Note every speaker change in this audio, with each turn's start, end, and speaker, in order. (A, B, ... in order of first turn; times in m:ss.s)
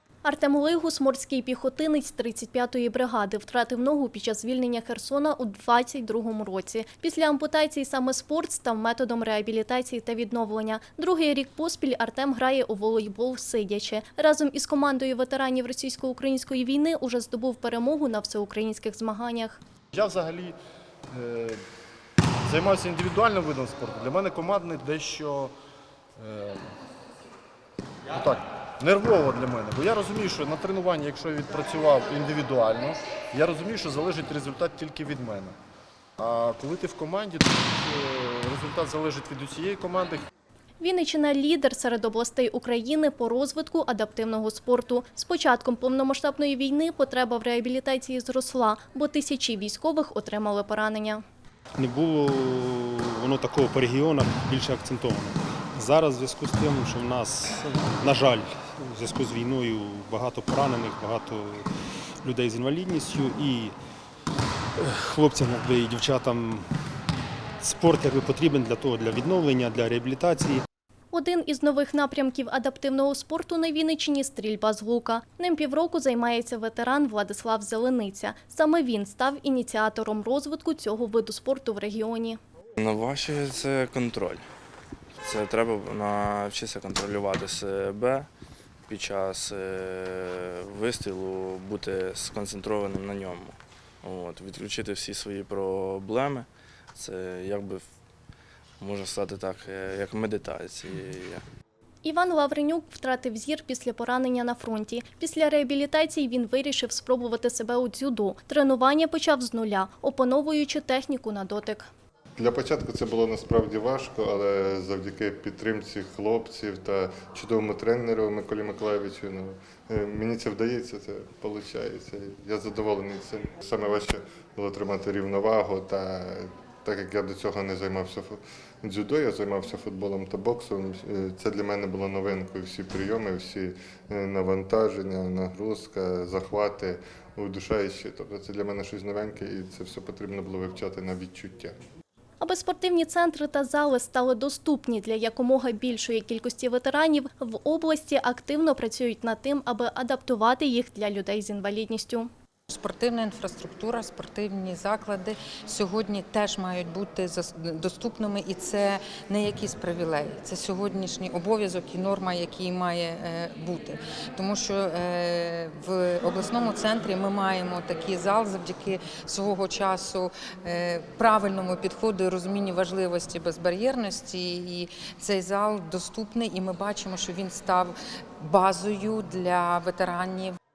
0:00.2-0:19.6 A
0:10.9-0:11.5 B
0:19.9-0:20.6 C
0:21.1-0:21.6 C
0:22.4-0:25.5 C
0:26.2-0:26.6 C
0:28.1-0:35.6 C
0:36.2-0:40.3 C
0:40.8-0:51.2 A
0:44.5-0:44.8 B
0:51.8-1:01.6 D
1:02.2-1:03.7 D
1:04.8-1:06.6 D
1:07.6-1:10.6 D
1:11.1-1:22.4 A
1:22.8-1:24.5 E
1:25.2-1:28.3 E
1:28.9-1:37.9 E
1:38.8-1:41.4 E
1:42.0-1:51.9 A
1:52.4-2:21.8 B
2:22.4-2:32.3 A
2:32.7-3:00.6 F